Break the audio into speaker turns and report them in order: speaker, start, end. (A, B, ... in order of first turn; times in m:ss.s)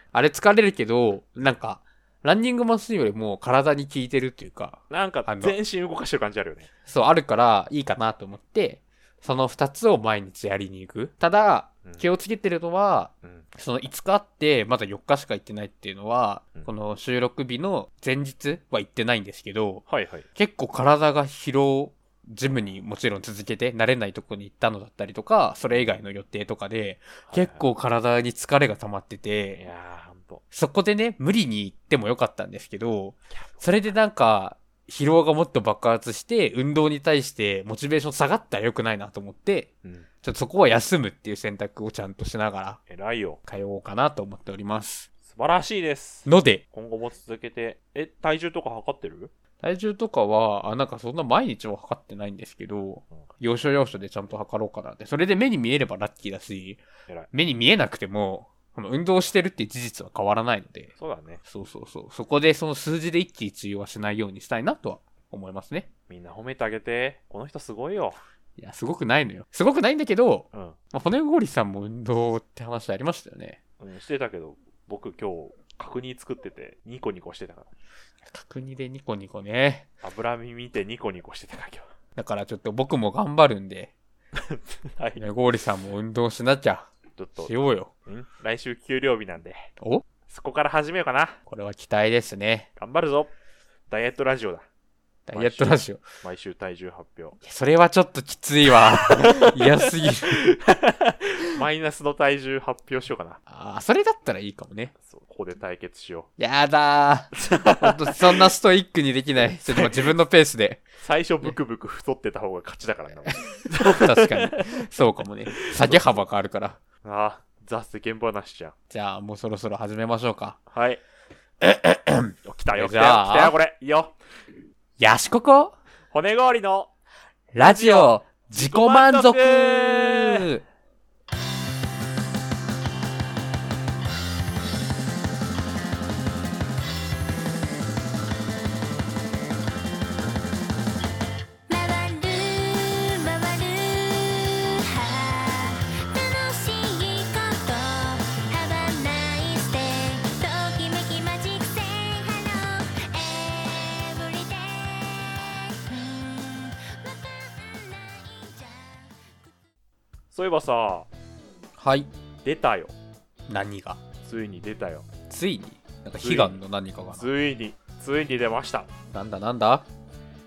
0:00.1-0:05.6 A
0:04.9-0:06.7 B
0:06.8-0:29.6 A
0:19.9-0:20.3 B
0:27.3-0:27.7 B
0:29.6-0:30.4 B
0:30.5-0:39.7 A
0:33.3-0:33.7 B
0:40.2-0:42.8 A
0:42.9-0:43.4 B
0:43.5-0:45.1 A
0:45.2-0:49.3 B
0:46.2-0:46.6 A
0:49.6-1:00.9 A
1:01.0-1:01.4 B
1:01.4-1:05.9 A
1:06.1-1:08.2 B
1:08.6-1:13.6 A
1:10.5-1:10.8 B
1:13.8-1:17.7 B
1:18.3-1:19.9 A
1:20.0-1:21.9 B
1:22.2-1:23.9 A
1:24.4-1:25.2 B
1:25.2-1:26.9 A
1:27.2-1:27.5 B
1:27.4-1:27.9 A
1:28.0-1:29.7 B
1:30.3-1:31.4 B
1:31.5-1:32.7 A
1:32.8-1:33.3 B
1:33.9-1:34.6 B
1:35.3-1:36.0 A
1:35.3-1:37.4 B
1:37.4-1:40.5 A
1:39.0-1:43.4 B
1:43.5-1:44.9 A
1:45.0-1:46.3 B
1:46.4-1:50.8 A
1:47.4-1:48.4 B
1:49.4-1:50.1 B
1:51.0-1:54.8 B
1:53.3-1:56.8 A
1:55.5-1:56.2 B
1:57.0-1:58.8 B
1:58.9-2:00.6 A
2:00.7-2:01.0 B
2:01.6-2:03.6 A
2:02.4-2:04.1 B
2:05.0-2:05.8 A
2:06.1-2:06.9 B
2:07.5-2:10.6 A
2:07.6-2:10.5 B
2:21.7-2:39.2 C
2:40.3-2:41.1 B
2:41.8-2:42.1 A
2:42.4-2:43.0 B
2:43.5-2:44.0 A
2:44.2-2:45.1 B
2:45.3-2:47.3 A
2:46.2-2:46.6 B
2:47.1-2:48.9 B
2:49.1-2:49.9 A